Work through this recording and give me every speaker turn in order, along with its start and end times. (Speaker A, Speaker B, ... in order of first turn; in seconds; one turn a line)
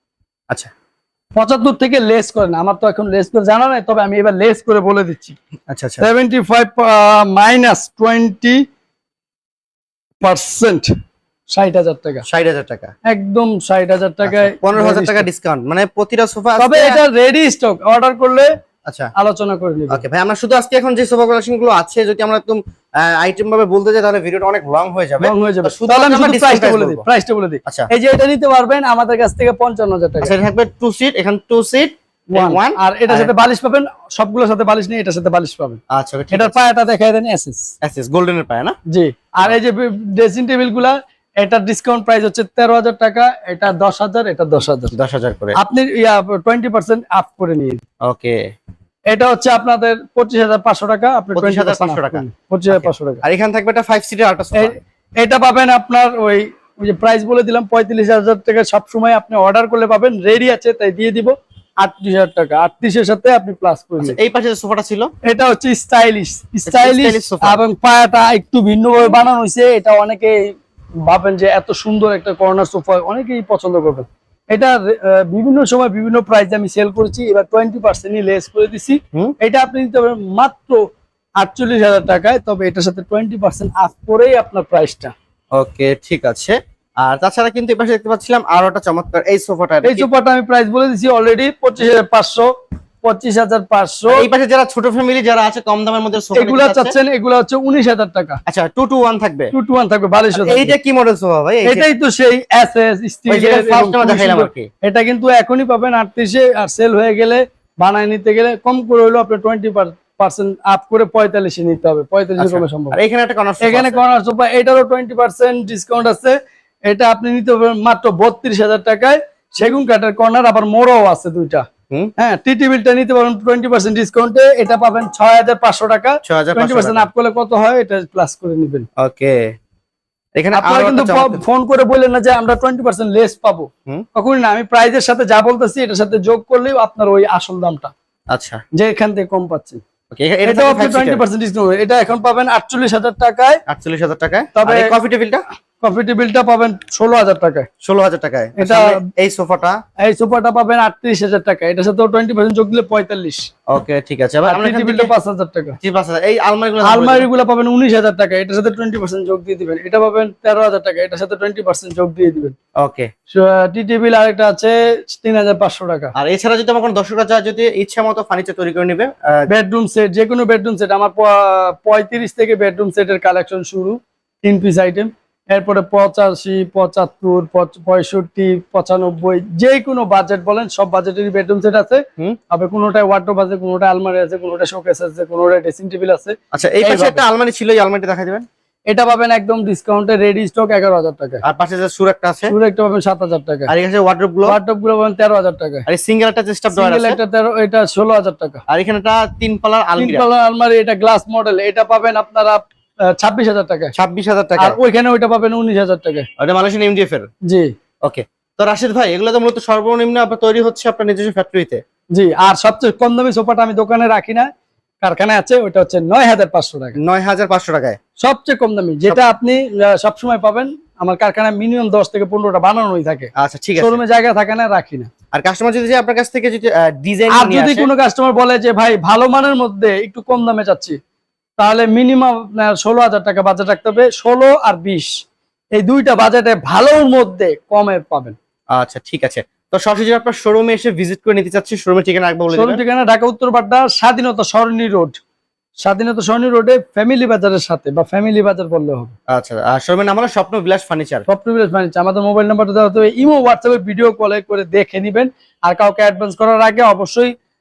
Speaker A: 1.4-5.4
Speaker B: 5.7-6.0
Speaker A: 6.0-8.6
Speaker A: 10.2-10.9
Speaker A: 11.5-12.2
Speaker B: 12.2-12.9
Speaker A: 13.1-15.2
Speaker B: 14.2-17.0
Speaker A: 16.6-18.5
Speaker A: 19.2-20.0
Speaker B: 19.9-27.0
Speaker A: 25.2-30.3
Speaker B: 30.2-33.3
Speaker A: 32.3-35.8
Speaker B: 35.9-36.6
Speaker A: 36.3-37.7
Speaker B: 37.8-38.8
Speaker A: 38.9-44.9
Speaker B: 44.9-45.6
Speaker A: 45.5-47.8
Speaker B: 48.1-48.4
Speaker A: 49.1-53.2
Speaker B: 51.4-54.7
Speaker A: 54.6-64.2
Speaker B: 64.0-65.1
Speaker A: 65.2-80.8
Speaker B: 66.7-67.6
Speaker A: 81.4-85.1
Speaker B: 85.6-90.1
Speaker A: 89.8-92.5
Speaker A: 93.0-94.2
Speaker B: 94.1-96.9
Speaker A: 96.3-98.4
Speaker B: 98.5-99.5
Speaker A: 99.5-100.7
Speaker B: 100.3-101.8
Speaker A: 101.6-113.0
Speaker B: 103.3-104.7
Speaker B: 112.4-114.0
Speaker A: 113.6-116.3
Speaker A: 116.9-121.7
Speaker A: 122.2-128.9
Speaker B: 126.2-127.1
Speaker B: 129.0-129.4
Speaker B: 130.4-131.4
Speaker A: 130.5-137.9
Speaker B: 138.3-138.6
Speaker A: 138.7-139.8
Speaker B: 140.1-141.2
Speaker A: 140.4-143.6
Speaker B: 143.7-145.4
Speaker A: 144.6-144.9
Speaker A: 145.8-147.7
Speaker B: 147.8-149.8
Speaker A: 148.6-149.0
Speaker A: 150.0-153.5
Speaker B: 153.7-155.1
Speaker A: 154.5-155.8
Speaker B: 155.8-157.3
Speaker A: 156.8-162.6
Speaker B: 162.8-163.1
Speaker A: 163.3-166.1
Speaker B: 166.2-169.5
Speaker A: 169.5-187.2
Speaker B: 186.5-188.4
Speaker A: 188.9-191.4
Speaker B: 191.4-192.5
Speaker A: 192.5-193.7
Speaker B: 193.7-194.6
Speaker A: 194.4-195.9
Speaker B: 195.9-197.2
Speaker A: 196.7-198.6
Speaker B: 198.7-200.2
Speaker A: 200.0-202.6
Speaker A: 203.1-203.9
Speaker B: 203.9-204.8
Speaker A: 204.6-206.3
Speaker B: 206.4-207.3
Speaker A: 207.5-207.7
Speaker B: 208.0-211.8
Speaker A: 212.1-214.5
Speaker A: 215.0-217.0
Speaker B: 217.0-218.0
Speaker A: 218.2-225.1
Speaker B: 223.4-224.0
Speaker B: 225.3-227.9
Speaker A: 227.3-231.0
Speaker A: 231.6-235.1
Speaker A: 235.8-238.4
Speaker B: 238.8-242.8
Speaker A: 242.5-245.2
Speaker A: 245.8-249.1
Speaker B: 249.3-251.2
Speaker A: 251.3-257.3